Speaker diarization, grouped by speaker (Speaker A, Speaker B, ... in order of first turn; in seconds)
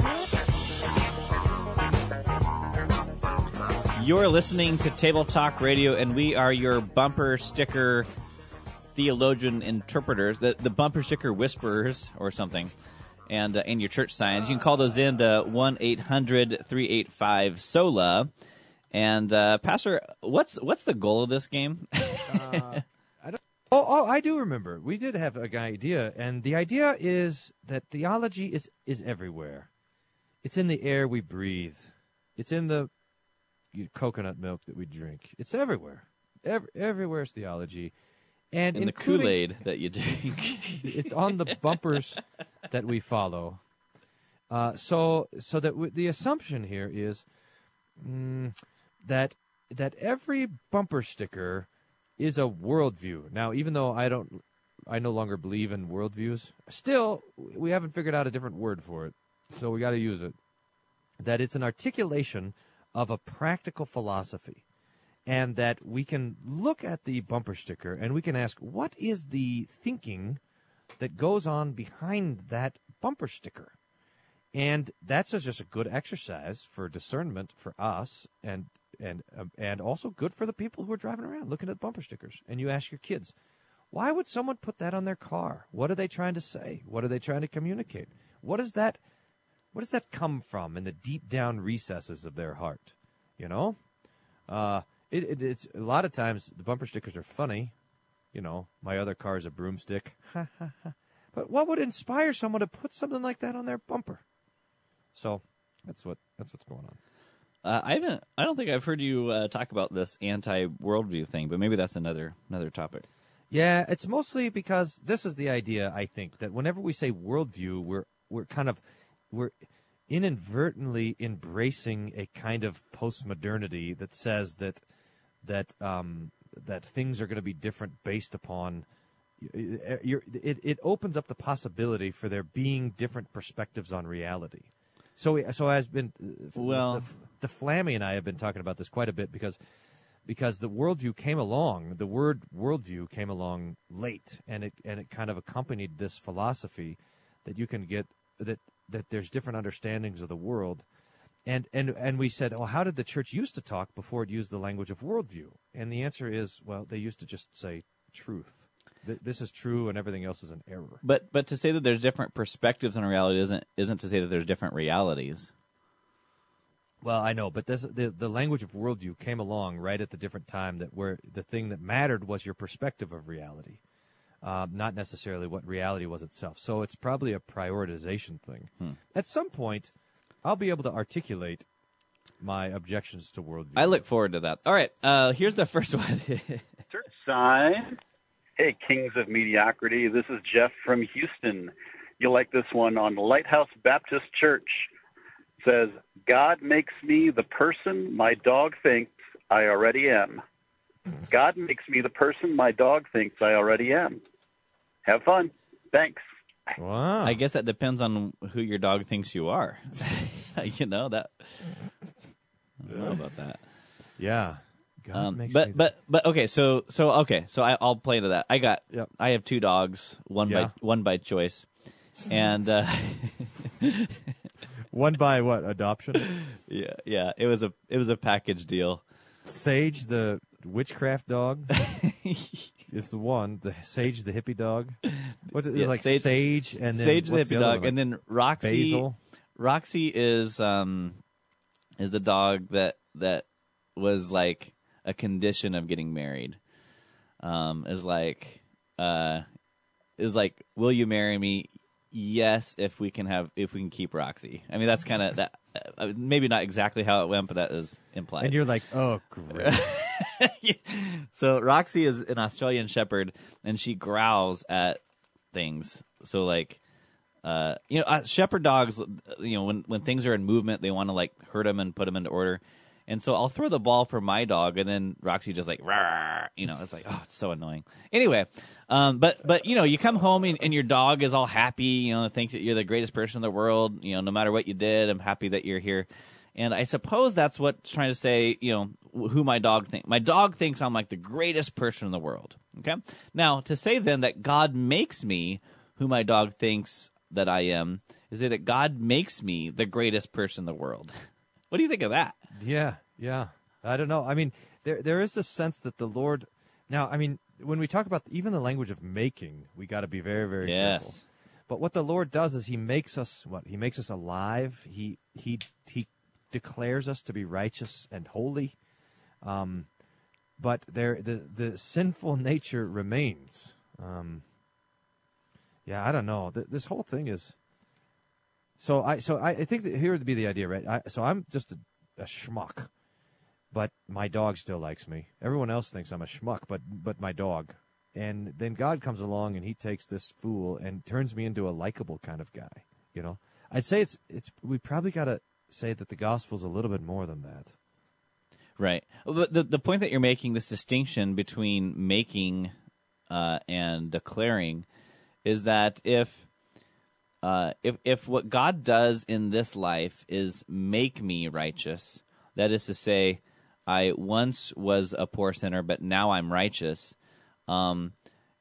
Speaker A: 4.0-8.1, 8.9-12.7, 13.3-18.3, 18.9-22.8, 38.7-41.1, 107.6-113.0, 136.6-137.1, 161.0-165.5, 183.8-186.7, 207.2-211.8, 212.8-213.6, 215.1-223.9, 226.3-229.0, 231.9-232.7, 235.7-239.0, 239.6-241.2, 242.0-246.6, 247.4-249.4, 250.2-258.6, 259.5-265.0, 265.5-266.8, 267.4-302.4, 310.6-311.2, 348.8-352.7, 353.3-354.9, 355.4-356.5, 357.4-367.1, 367.7-368.1
Speaker B: 22.3-29.7, 30.4-32.9, 33.7-37.9, 38.5-39.4, 40.8-43.6, 44.5-47.2, 48.0-60.4, 61.2-64.6, 65.2-70.4, 71.0-73.7, 74.5-83.3, 83.9-89.0, 89.7-93.8, 94.5-97.7, 98.3-104.2, 105.1-107.0, 113.5-119.5, 120.1-124.8, 125.4-128.8, 129.4-139.6, 140.2-150.8, 151.4-161.0, 167.0-173.8, 174.4-179.9, 180.4-181.7, 182.4-184.0, 206.8-207.4, 212.9-213.2, 214.2-215.8, 220.4-220.7, 224.9-226.2, 229.4-231.7, 232.9-238.0, 238.6-239.2, 258.4-259.9, 302.5-311.2, 311.7-318.8, 319.4-319.9, 320.6-324.4, 325.9-327.5, 328.8-332.9, 333.7-347.7
Speaker C: 186.9-188.0, 188.6-194.9, 195.6-200.4, 201.3-204.2, 205.0-206.7